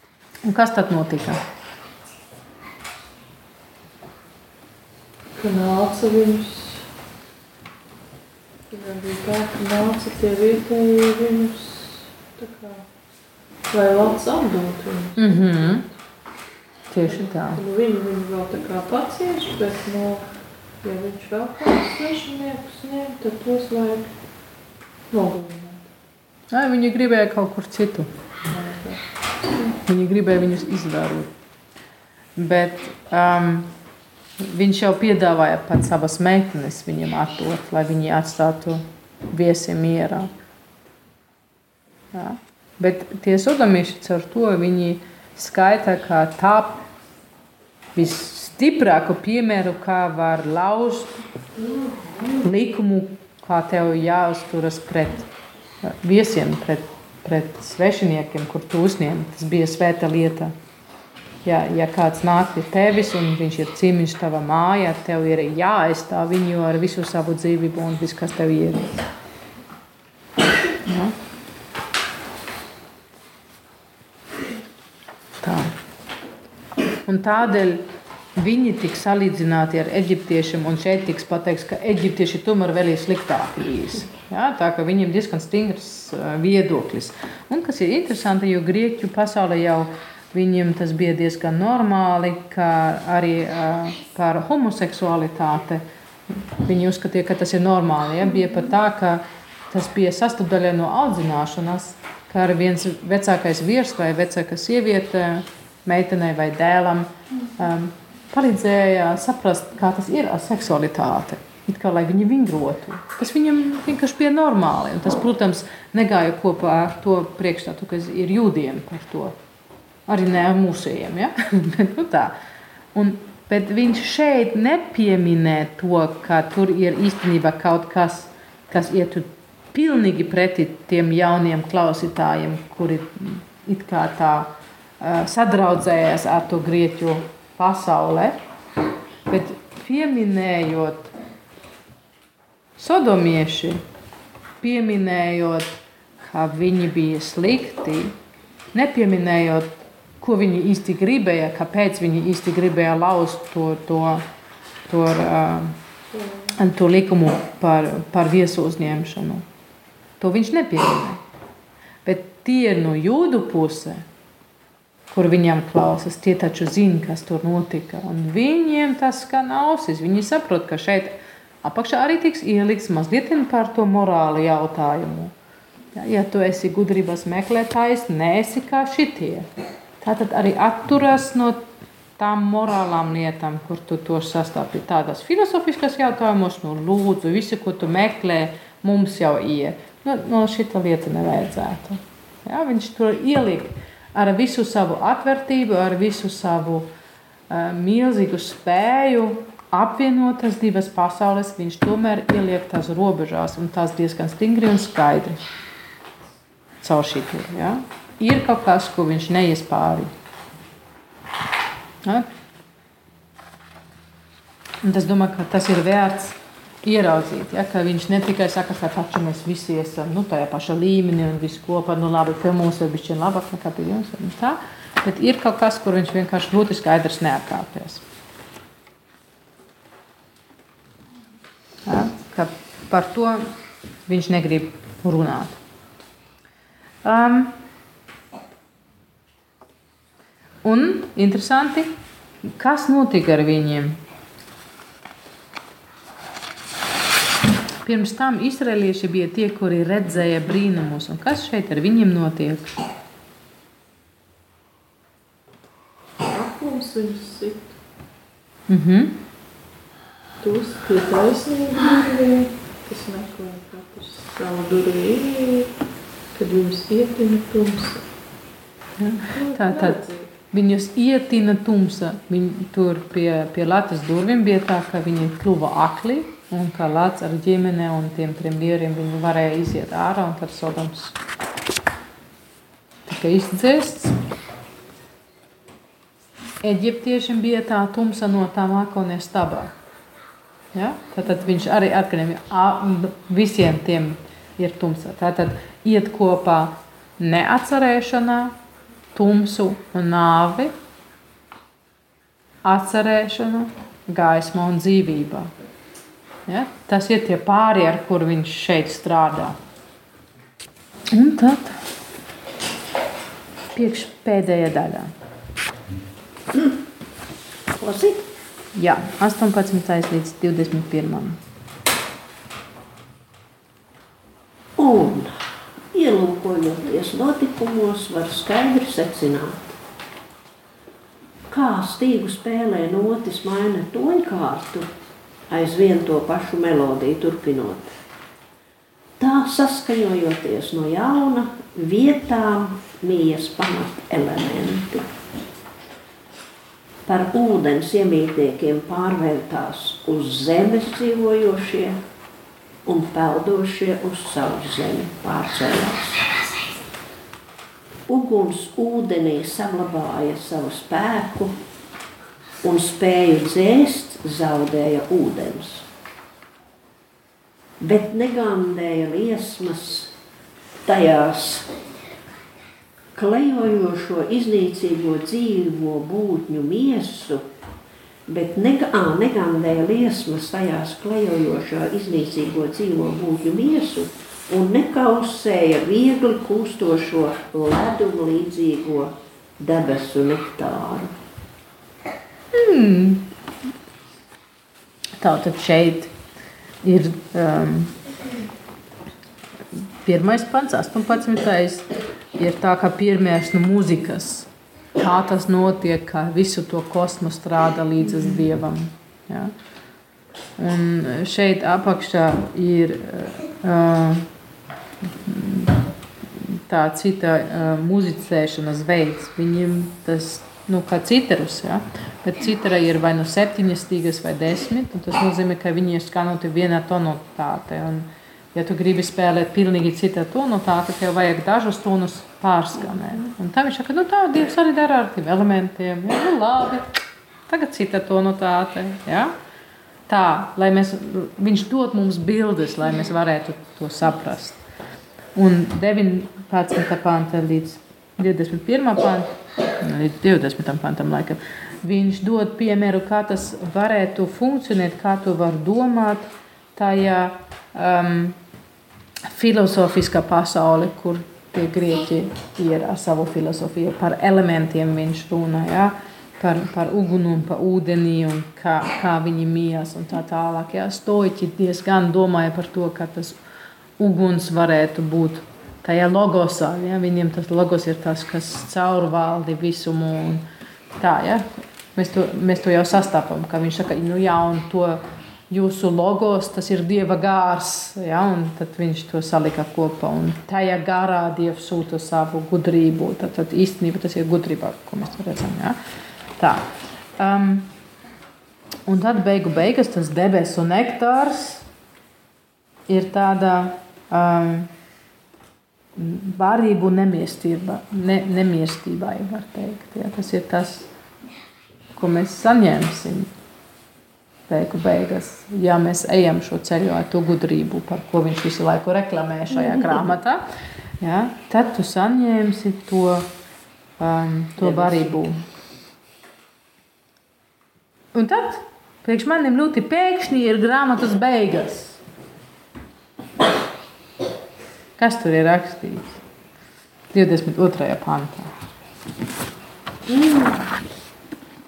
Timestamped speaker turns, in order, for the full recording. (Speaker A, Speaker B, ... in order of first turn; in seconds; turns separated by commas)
Speaker A: 0.4-1.4, Speaker B: 5.4-6.8, Speaker B: 8.7-12.8, Speaker B: 13.7-16.0, Speaker A: 15.2-15.8, Speaker A: 16.9-17.6, Speaker B: 17.1-24.1, Speaker B: 25.1-25.9, Speaker A: 26.5-28.1, Speaker B: 28.5-29.8, Speaker A: 29.9-31.3, Speaker A: 32.4-33.7, Speaker A: 34.4-40.3, Speaker A: 42.1-46.8, Speaker A: 48.0-51.2, Speaker A: 52.4-55.3, Speaker A: 55.8-60.5, Speaker A: 61.5-69.0, Speaker A: 70.9-71.1, Speaker A: 75.4-75.7, Speaker A: 77.1-77.8, Speaker A: 78.4-119.3, Speaker A: 120.1-122.4, Speaker A: 123.0-138.4, Speaker A: 139.3-141.1, Speaker A: 142.8-143.8, Speaker A: 144.6-148.1, Speaker A: 148.7-154.2, Speaker A: 154.9-155.8, Speaker B: 156.1-156.5, Speaker A: 156.6-159.4, Speaker A: 160.2-161.2, Speaker A: 162.1-164.1, Speaker A: 165.1-175.3, Speaker A: 175.9-179.5, Speaker A: 180.0-181.7, Speaker A: 182.2-196.9, Speaker A: 197.5-205.4, Speaker A: 206.8-210.1, Speaker A: 214.8-228.0, Speaker A: 231.9-233.5, Speaker A: 234.1-235.6, Speaker A: 237.0-237.6, Speaker A: 240.6-241.9, Speaker A: 242.4-244.0, Speaker A: 247.8-252.7, Speaker B: 256.2-257.7, Speaker A: 258.7-259.1, Speaker B: 260.4-265.7, Speaker B: 266.3-268.0, Speaker A: 269.0-281.2, Speaker B: 269.3-270.3, Speaker A: 283.1-284.2, Speaker A: 286.6-289.7, Speaker A: 290.7-298.5, Speaker A: 299.1-300.7, Speaker A: 302.6-305.5, Speaker A: 306.5-309.6, Speaker A: 311.1-311.8, Speaker A: 313.7-315.1, Speaker C: 317.7-318.3, Speaker A: 318.8-321.4, Speaker C: 324.8-329.8, Speaker C: 331.5-334.9, Speaker C: 335.5-337.9, Speaker C: 339.2-345.1, Speaker C: 347.1-352.0, Speaker C: 352.9-356.2, Speaker C: 358.1-361.6, Speaker C: 362.6-365.9, Speaker C: 367.8-370.1, Speaker C: 370.9-371.7, Speaker C: 373.1-377.4, Speaker C: 378.3-391.1, Speaker A: 392.5-393.3, Speaker A: 395.2-396.1, Speaker A: 396.8-398.0, Speaker A: 400.0-409.5, Speaker A: 410.6-414.3, Speaker A: 415.1-415.8, Speaker A: 416.4-436.9, Speaker A: 437.5-439.4, Speaker A: 440.1-444.6, Speaker A: 445.4-449.3, Speaker A: 449.8-458.4, Speaker A: 459.3-473.4, Speaker A: 474.0-495.8, Speaker A: 496.4-496.6, Speaker A: 497.2-497.7, Speaker A: 498.9-501.6, Speaker A: 502.9-504.7, Speaker A: 506.0-510.9, Speaker A: 511.9-513.3, Speaker A: 514.5-520.5, Speaker A: 521.0-523.3, Speaker A: 524.0-525.4, Speaker C: 524.6-525.2, Speaker A: 528.1-532.0, Speaker A: 535.0-536.2, Speaker A: 537.1-538.5, Speaker C: 540.1-540.7